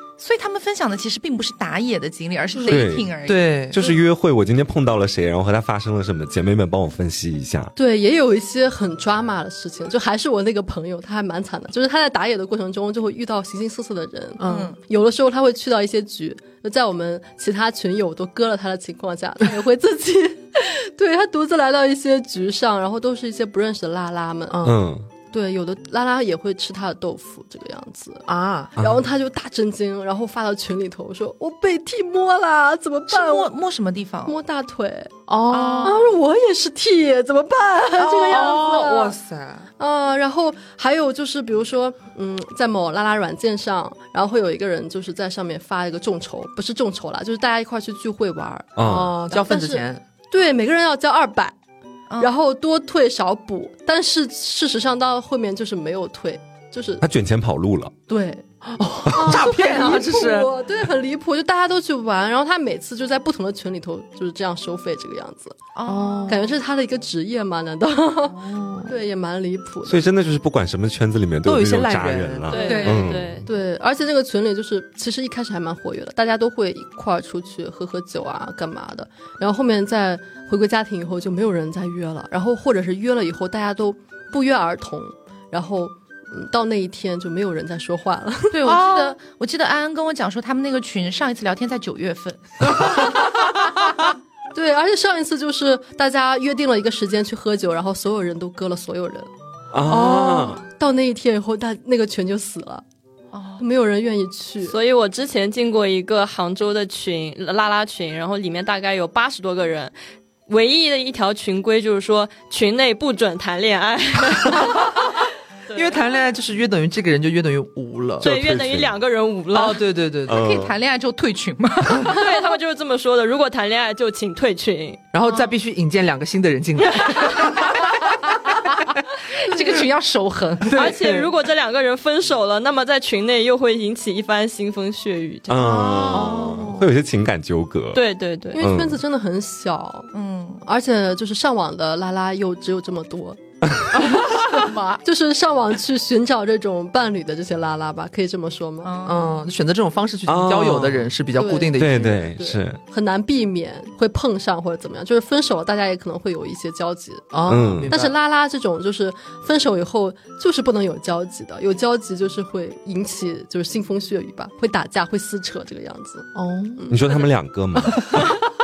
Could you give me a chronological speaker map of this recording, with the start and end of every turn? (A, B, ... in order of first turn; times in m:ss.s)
0:00.2-0:03.5 A
0:02.7-0:03.1 B
0:03.3-0:03.8 C
0:03.7-0:07.7 B
0:07.8-0:24.6 D
0:14.4-0:14.7 C
0:14.4-0:14.8 A
0:24.5-0:24.8 C
0:24.6-0:25.1 B
0:25.3-0:33.5 D
0:28.3-0:28.7 C
0:28.8-0:29.0 B
0:33.1-0:34.4 A
0:34.2-0:35.1 D
0:35.3-0:36.0 C
0:35.5-0:36.1 A
0:35.8-0:39.1 D
0:37.9-0:39.7 C
0:39.8-0:51.5 D
0:48.8-0:49.2 B
0:48.8-0:50.0 C
0:52.2-0:57.0 D
0:57.0-0:57.9 B
0:58.1-0:58.4 D
0:58.6-1:00.6 C
0:59.1-1:05.6 D
1:05.7-1:06.4 A
1:05.8-1:06.5 C
1:06.3-1:10.0 D
1:08.3-1:08.9 C
1:09.8-1:13.4 B
1:11.4-1:12.8 C
1:12.5-1:13.5 E
1:12.6-1:13.0 A
1:12.6-1:29.2 D
1:28.5-1:33.2 A
1:34.5-1:39.3 D
1:39.7-1:40.6 B
1:39.9-1:42.8 D
1:43.3-1:43.6 A
1:43.6-1:44.7 D
1:44.6-1:49.9 E
1:50.5-1:55.0 E
1:55.7-1:56.0 E
1:55.7-1:58.3 C
1:58.2-1:58.9 B
1:58.2-1:59.8 E
1:59.5-2:00.4 C
2:00.3-2:00.7 B
2:00.3-2:02.2 A
2:02.0-2:05.0 E
2:05.1-2:08.3 C
2:09.4-2:10.8 A
2:10.7-2:11.3 C
2:10.7-2:15.9 E
2:15.5-2:18.0 B
2:15.6-2:16.5 A
2:15.6-2:16.8 C
2:17.9-2:18.6 E
2:18.6-2:20.1 D
2:18.6-2:19.0 B
2:20.1-2:20.6 A
2:20.6-2:23.4 D
2:23.9-2:28.9 D
2:24.5-2:25.0 A
2:28.8-2:29.4 A
2:29.0-2:32.2 C
2:30.3-2:31.1 B
2:31.3-2:47.0 D
2:31.8-2:32.8 B
2:37.3-2:38.2 C
2:37.4-2:37.9 B
2:46.3-2:46.9 C
2:46.9-2:48.3 B
2:47.8-2:48.2 C